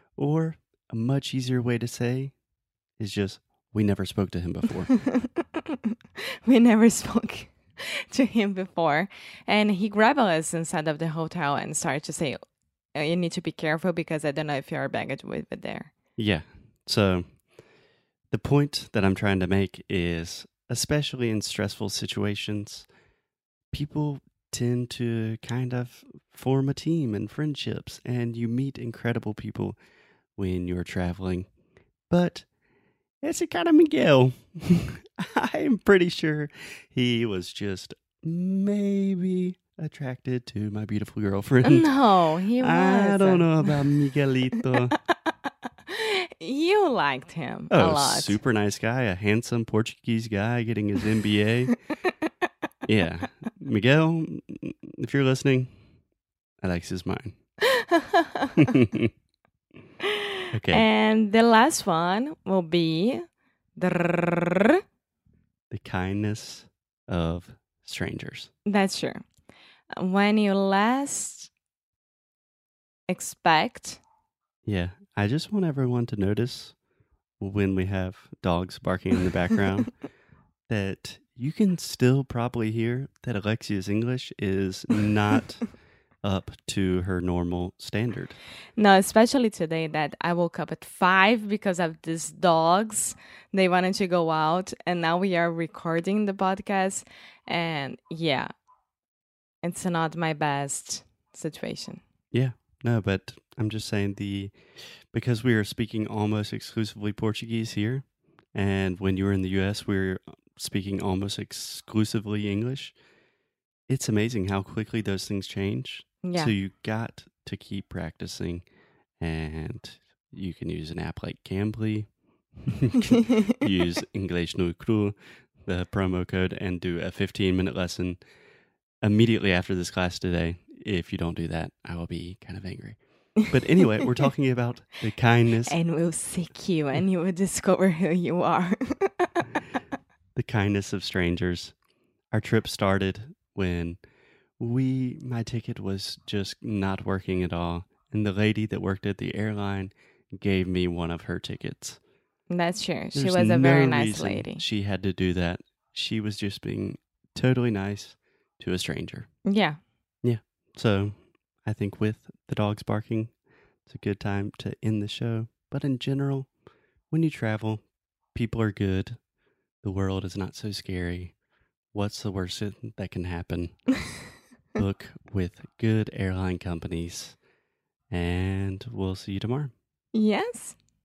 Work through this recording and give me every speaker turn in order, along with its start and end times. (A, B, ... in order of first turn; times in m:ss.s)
0:00.2-0:02.3 A
0:03.0-0:05.0 A
0:05.1-0:05.6 B
0:06.4-0:12.4 B
0:12.9-0:15.9 B
0:16.2-0:17.5 A
0:18.3-0:22.9 A
0:23.7-0:29.8 A
0:30.4-0:31.5 A
0:32.1-0:32.5 A
0:33.2-0:42.0 A
0:41.6-0:44.0 B
0:42.6-0:44.9 A
0:45.0-0:45.3 B
0:45.9-0:48.4 B
0:47.7-0:51.8 A
0:52.8-0:55.7 A
0:56.6-0:57.3 A
0:58.6-0:59.1 A
1:00.5-1:00.9 A
1:00.7-1:03.2 B
1:03.8-1:04.8 B
1:05.7-1:08.5 A
1:08.6-1:09.2 B
1:09.9-1:11.5 B
1:13.1-1:14.0 B
1:14.6-1:16.8 A
1:17.4-1:20.0 A
1:20.7-1:25.7 A
1:26.2-1:28.4 A
1:28.8-1:38.5 B
1:39.6-1:42.0 B
1:42.3-1:53.0 A
1:53.9-1:58.6 A
1:56.2-1:56.5 B
1:59.2-2:08.2 A
2:09.0-2:15.8 A
2:15.7-2:19.5 B
2:20.3-2:21.7 A
2:22.3-2:24.0 A
2:24.6-2:32.0 A
2:32.5-2:34.6 B
2:33.1-2:39.3 A
2:39.4-2:39.8 B
2:40.2-2:43.3 A
2:43.8-2:46.5 A
2:47.1-2:49.2 A
2:49.8-2:51.3 A
2:51.9-2:53.8 A
2:54.8-2:57.4 A
2:58.1-2:59.7 A
3:00.1-3:00.8 B